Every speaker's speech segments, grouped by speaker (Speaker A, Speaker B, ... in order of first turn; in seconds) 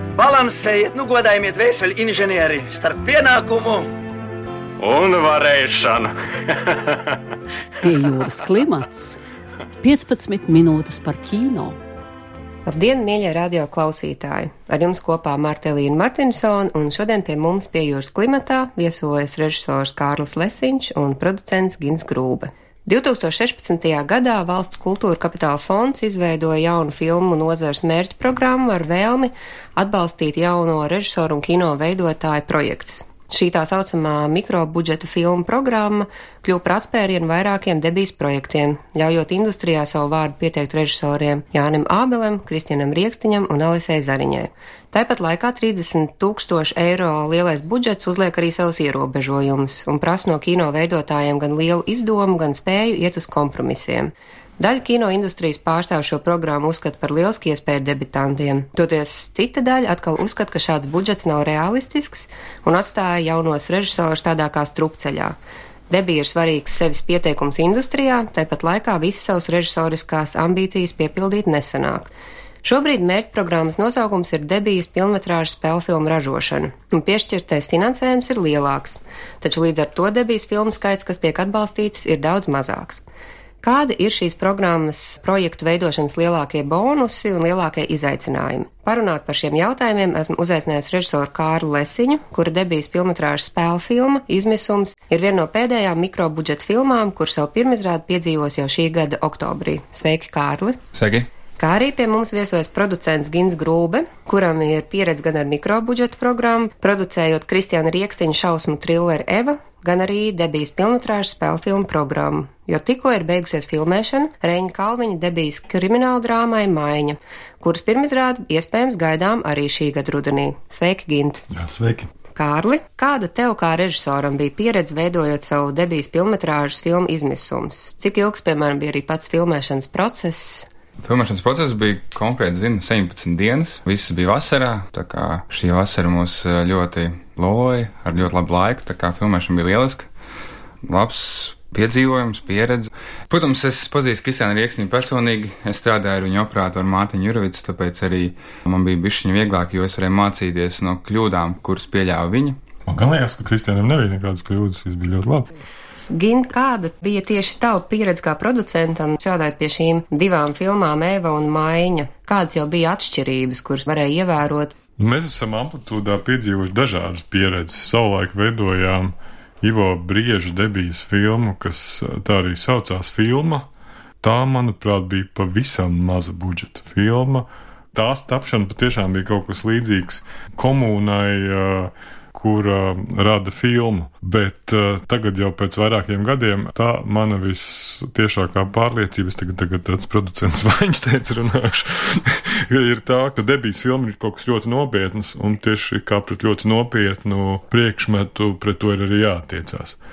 Speaker A: 0.2-3.9
Speaker B: 4.8-6.8
Speaker C: 7.8-9.2, 9.8-11.8
Speaker D: 12.7-65.4, 65.9-72.1, 72.6-83.0, 83.6-100.8, 101.6-121.5, 122.3-130.7, 156.1-164.8
Speaker E: 100.9-101.3, 131.0-140.1, 140.9-152.6
Speaker F: 121.5-122.1, 152.9-155.5, 165.0-173.7, 174.2-200.0